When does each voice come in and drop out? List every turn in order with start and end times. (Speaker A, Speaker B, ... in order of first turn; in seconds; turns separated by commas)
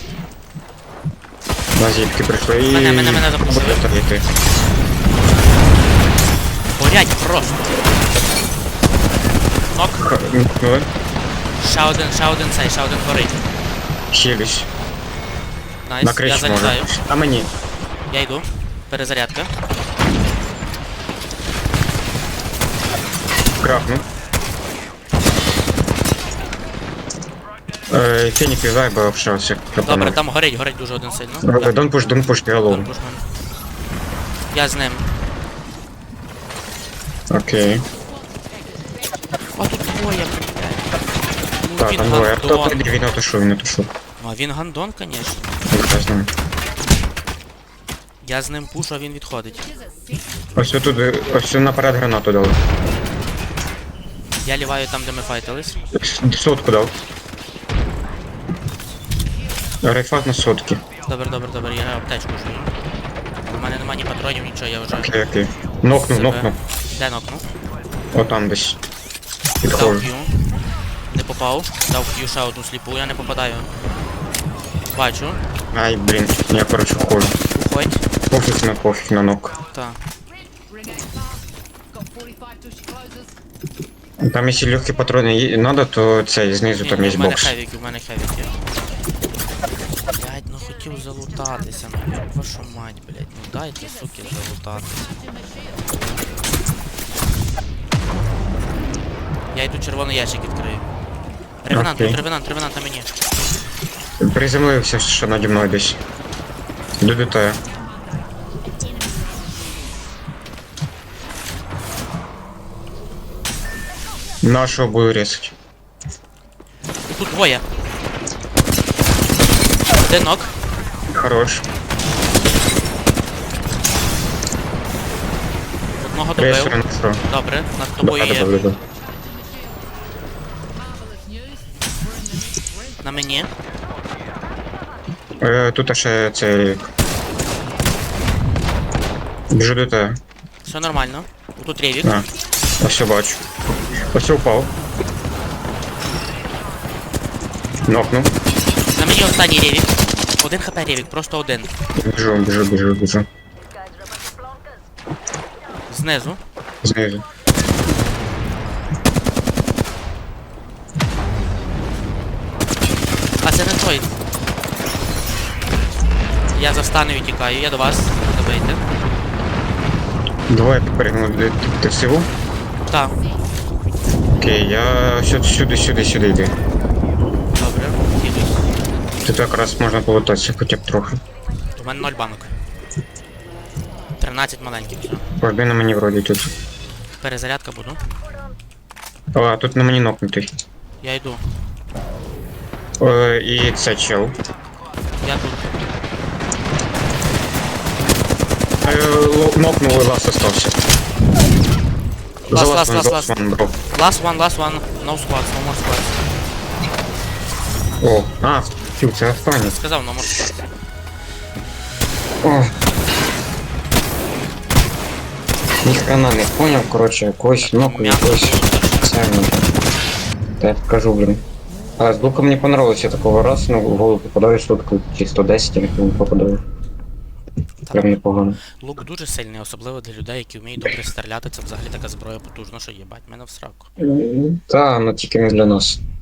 Speaker A: 1.8-4.2, Speaker B: 2.6-3.9, Speaker B: 6.7-7.7, Speaker B: 9.7-10.1, Speaker A: 10.0-10.9, Speaker B: 11.6-13.4, Speaker A: 14.1-14.7, Speaker B: 15.8-17.0, Speaker A: 16.0-17.5, Speaker B: 18.1-19.5, Speaker A: 23.6-24.1, Speaker A: 27.9-30.2, Speaker B: 29.8-31.9, Speaker A: 31.4-32.9, Speaker B: 32.6-33.3, Speaker B: 34.5-35.2, Speaker A: 37.3-37.9, Speaker C: 37.9-39.2, Speaker B: 39.5-42.9, Speaker A: 41.8-43.9, Speaker B: 44.2-45.6, Speaker A: 45.7-46.3, Speaker B: 48.2-49.7, Speaker C: 49.9-50.2, Speaker A: 50.5-52.6, Speaker B: 54.4-55.9, Speaker A: 55.9-56.9, Speaker A: 59.8-60.8, Speaker B: 61.0-62.8, Speaker B: 63.4-65.1, Speaker A: 64.9-66.5, Speaker B: 65.9-67.5, Speaker A: 68.1-68.8, Speaker A: 69.6-70.1, Speaker B: 69.6-73.7, Speaker B: 74.9-75.4, Speaker A: 75.7-77.4, Speaker B: 77.5-78.0, Speaker A: 78.3-79.6, Speaker B: 79.7-80.0, Speaker C: 80.6-81.4, Speaker C: 81.9-83.3, Speaker A: 84.2-87.6, Speaker B: 86.8-88.6, Speaker B: 90.1-95.1, Speaker C: 95.1-95.9, Speaker B: 99.5-100.9, Speaker B: 101.6-103.1, Speaker A: 101.7-102.2, Speaker A: 104.2-106.0, Speaker A: 107.0-107.6, Speaker C: 107.7-108.3, Speaker C: 108.8-109.9, Speaker A: 114.4-115.5, Speaker B: 117.1-117.7, Speaker B: 119.9-120.5, Speaker A: 121.1-121.6, Speaker B: 126.0-128.6, Speaker A: 126.4-127.2, Speaker A: 128.0-128.8, Speaker C: 128.9-129.8, Speaker C: 130.8-132.9, Speaker B: 133.0-133.5, Speaker A: 135.4-136.9, Speaker A: 139.5-140.2, Speaker B: 140.6-142.3, Speaker A: 142.0-143.4, Speaker A: 144.1-144.7, Speaker A: 147.8-148.3, Speaker B: 148.9-151.8, Speaker A: 151.9-153.3, Speaker B: 155.9-156.4, Speaker A: 156.8-157.3, Speaker B: 163.4-164.1, Speaker B: 166.5-168.8, Speaker A: 170.5-172.3, Speaker B: 172.8-173.2, Speaker A: 174.4-176.6, Speaker B: 177.4-178.9, Speaker A: 179.2-181.2, Speaker B: 181.6-182.5, Speaker B: 184.2-185.3, Speaker A: 185.4-186.5, Speaker B: 187.2-188.1, Speaker A: 189.3-190.5, Speaker B: 191.0-191.6, Speaker A: 193.0-194.4, Speaker B: 195.2-195.9, Speaker A: 198.8-200.8, Speaker B: 202.4-206.2, Speaker A: 202.5-203.7, Speaker B: 207.9-208.2, Speaker A: 208.0-209.8, Speaker B: 209.4-210.7, Speaker A: 212.4-212.7, Speaker A: 215.8-219.7, Speaker B: 217.6-219.3, Speaker A: 220.6-221.4, Speaker A: 222.0-226.6, Speaker B: 227.8-233.9, Speaker A: 227.9-228.6, Speaker A: 234.0-236.0